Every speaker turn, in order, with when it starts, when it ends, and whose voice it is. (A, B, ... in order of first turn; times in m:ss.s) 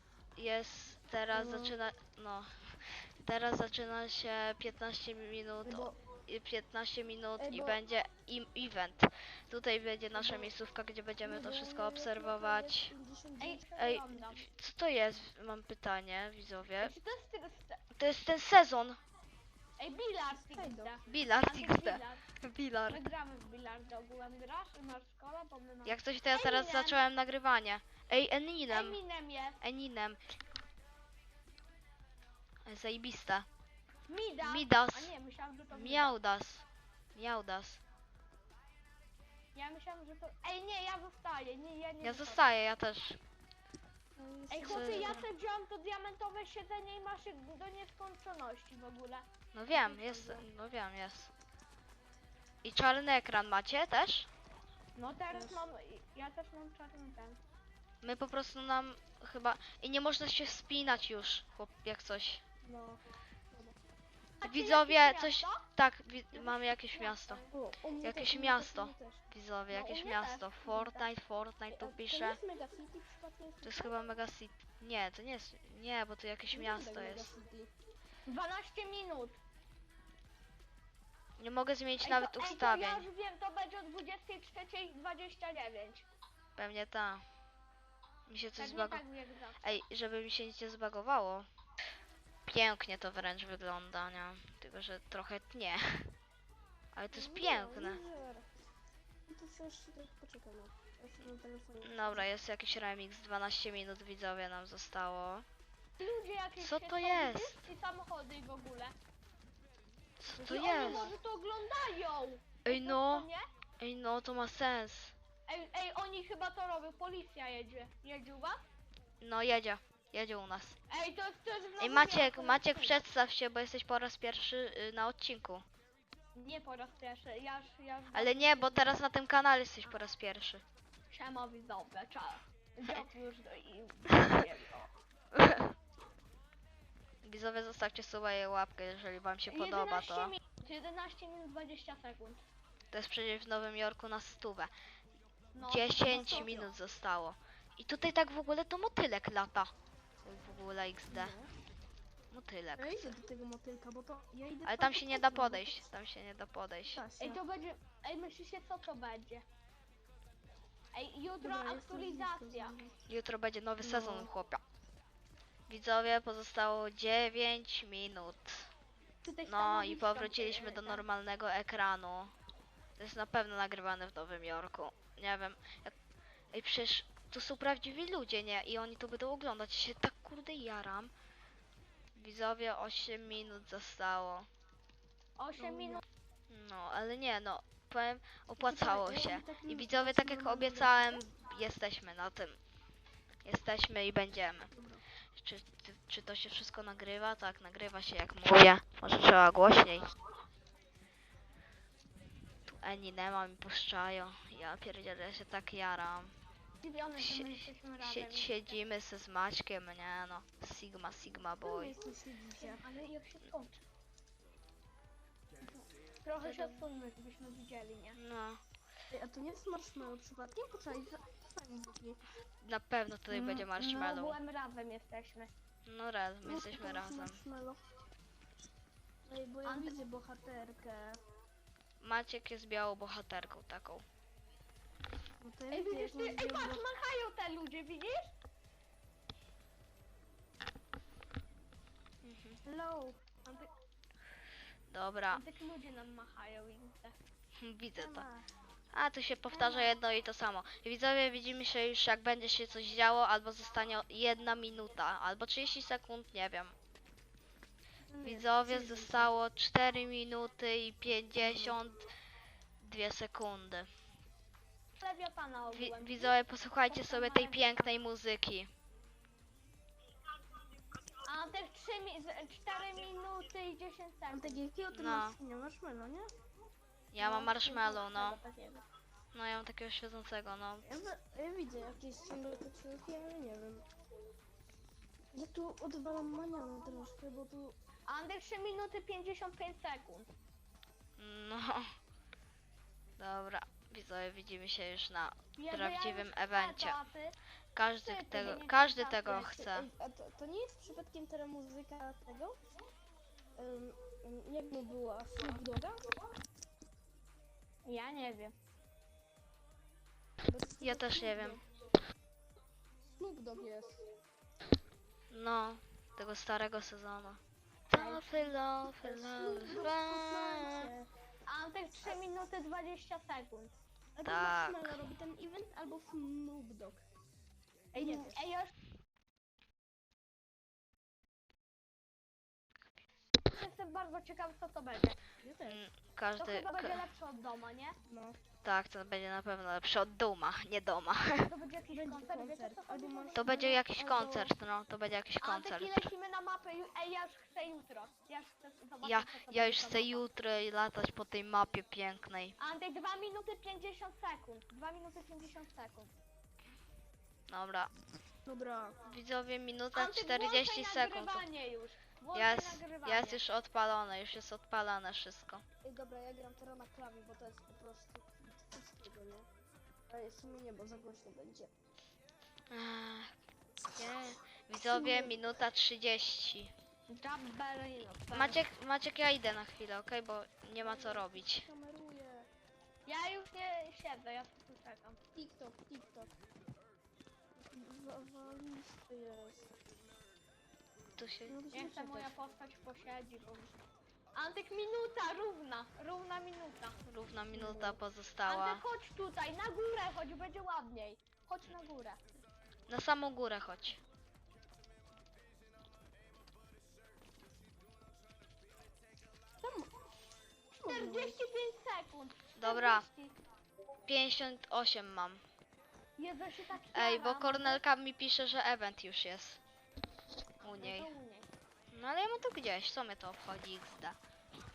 0:00.4-0:12.9 A
0:01.3-0:01.8 B
0:05.6-0:06.0 B
0:07.4-0:07.8 B
0:10.2-0:10.5 B
0:11.2-0:13.7 B
0:13.4-0:14.4 C
0:13.8-0:16.9 A
0:16.8-0:17.8 C
0:18.0-0:19.0 A
0:19.8-0:22.2 C
0:20.3-0:21.0 B
0:21.1-0:23.1 A
0:22.9-0:27.0 C
0:25.8-0:29.0 A
0:28.7-0:29.6 C
0:29.6-0:30.2 A
0:32.6-0:33.5 A
0:34.1-0:36.1 C
0:34.4-0:35.1 A
0:35.7-0:36.6 A
0:37.2-0:37.8 A
0:39.5-0:42.4 C
0:42.0-0:43.2 A
0:44.2-0:45.2 B
0:44.5-0:49.3 C
0:44.7-0:45.2 A
0:49.5-0:51.3 A
0:49.7-0:50.4 B
0:52.6-0:54.3 A
0:55.0-0:57.4 C
0:55.3-0:55.6 B
0:58.0-1:02.4 A
1:02.6-1:03.8 B
1:04.4-1:05.7 C
1:04.4-1:07.4 A
1:06.3-1:07.5 C
1:07.5-1:09.2 B
1:08.0-1:12.4 A
1:09.7-1:11.1 C
1:11.7-1:14.0 B
1:13.6-1:17.3 A
1:16.5-1:17.7 B
1:18.3-1:19.4 C
1:21.4-1:23.1 A
1:22.0-1:26.1 C
1:26.6-1:27.2 A
1:28.3-1:29.0 A
1:28.6-1:29.7 C
1:29.6-1:31.4 A
1:32.5-1:36.1 A
1:36.9-1:38.0 A
1:37.1-1:38.6 B
1:39.3-1:42.3 B
1:41.8-1:45.4 A
1:46.0-1:48.9 C
1:46.6-1:47.6 A
1:50.2-1:51.1 A
1:50.3-1:51.1 B
1:50.4-1:53.4 C
1:52.6-1:53.3 A
1:53.8-1:55.1 A
1:55.5-1:58.6 C
1:59.2-2:00.8 A
2:00.9-2:03.0 C
2:01.8-2:05.6 A
2:06.3-2:08.9 C
2:08.1-2:10.6 A
2:11.1-2:14.9 C
2:15.3-2:15.7 A
2:17.2-2:20.3 A
2:19.5-2:22.4 C
2:22.9-2:24.7 A
2:25.5-2:26.6 C
2:25.6-2:29.7 A
2:26.1-2:26.7 B
2:30.2-2:31.4 A
2:31.1-2:31.5 B
2:32.3-2:33.2 A
2:32.8-2:35.8 B
2:34.6-2:37.0 A
2:36.9-2:37.4 B
2:37.2-2:39.4 C
2:40.9-2:42.8 C
2:41.4-2:42.9 B
2:43.1-2:44.6 A
2:43.8-2:44.3 B
2:45.7-2:48.7 A
2:49.2-2:51.0 C
2:49.4-2:52.3 A
2:53.0-2:55.9 A
2:56.5-3:01.1 A
3:02.1-3:04.5 A
3:05.4-3:06.0 C
3:05.6-3:06.0 B
3:06.5-3:12.6 A
3:08.6-3:11.2 B
3:13.4-3:14.7 A
3:14.7-3:15.0 B
3:15.3-3:20.1 A
3:22.7-3:26.3 A
3:26.8-3:28.8 C
3:27.2-3:31.9 A
3:31.6-3:32.8 B
3:32.6-3:33.8 C
3:35.6-3:38.2 C
3:36.4-3:36.8 A
3:38.2-3:38.6 A
3:39.1-3:42.2 B
3:42.6-3:44.4 A
3:43.3-3:45.5 C
3:45.8-3:47.4 A
3:46.4-3:47.8 B
3:49.2-3:51.2 B
3:49.6-3:49.9 C
3:52.0-3:54.0 A
3:55.4-3:56.8 B
3:55.7-3:58.3 C
4:02.2-4:02.6 A
4:02.7-4:03.7 C
4:04.9-4:05.4 A
4:05.3-4:07.2 C
4:07.6-4:08.3 A
4:08.0-4:08.4 B
4:08.9-4:16.7 A
4:09.5-4:10.0 C
4:18.1-4:19.3 C
4:18.2-4:22.0 A
4:21.4-4:21.8 B
4:22.8-4:23.9 A
4:25.0-4:26.3 C
4:25.7-4:28.7 A
4:26.9-4:27.9 C
4:31.2-4:34.6 C
4:34.3-4:36.3 B
4:34.9-4:35.4 A
4:37.1-4:38.4 A
4:37.2-4:38.8 C
4:39.3-4:40.9 A
4:40.8-4:43.8 B
4:45.3-4:47.8 B
4:48.1-4:50.3 C
4:51.2-4:51.9 A
4:53.2-4:57.0 A
4:55.6-4:57.3 C
4:57.7-4:59.9 A
4:58.0-4:59.5 C
4:59.3-5:02.6 B
5:03.6-5:06.0 B
5:07.8-5:08.5 C
5:10.4-5:11.6 B
5:10.8-5:11.6 A
5:13.1-5:14.0 B
5:15.3-5:20.9 A
5:17.9-5:18.5 C
5:19.0-5:21.1 B
5:21.5-5:23.7 C
5:24.2-5:27.0 B
5:24.2-5:25.0 A
5:27.9-5:28.7 C
5:28.0-5:28.4 B
5:33.5-5:35.2 C
5:35.4-5:35.8 B
5:35.6-5:37.0 A
5:36.4-5:38.0 C
5:38.0-5:38.4 B
5:38.6-5:41.5 A
5:41.4-5:43.8 C
5:41.9-5:44.5 B
5:43.4-5:46.1 A
5:45.4-5:50.2 C
5:49.0-5:52.5 A
5:52.6-5:56.1 C
5:57.5-5:57.9 A
5:58.4-5:59.0 B
5:59.0-6:01.4 A
5:59.9-6:03.4 C
6:02.3-6:05.6 A
6:05.8-6:09.5 B
6:10.1-6:11.7 B
6:12.7-6:13.3 A
6:13.9-6:16.7 A
6:14.8-6:15.4 B
6:17.1-6:18.6 C
6:18.3-6:21.7 A
6:20.8-6:22.5 B
6:23.0-6:25.2 C
6:25.3-6:26.3 B
6:27.6-6:29.7 B
6:31.2-6:31.6 A
6:31.5-6:32.3 B
6:31.7-6:33.7 C
6:34.3-6:37.0 C
6:37.0-6:38.8 A
6:37.5-6:38.0 B
6:38.4-6:42.2 C
6:42.9-6:44.0 A
6:49.6-6:49.9 B
6:50.7-6:51.4 B
6:50.8-6:53.4 C
6:52.6-6:53.0 A
6:54.1-6:55.4 A
6:56.2-6:57.8 C
6:56.9-6:59.6 A
7:00.6-7:01.1 A
7:00.6-7:01.5 C
7:01.9-7:04.2 A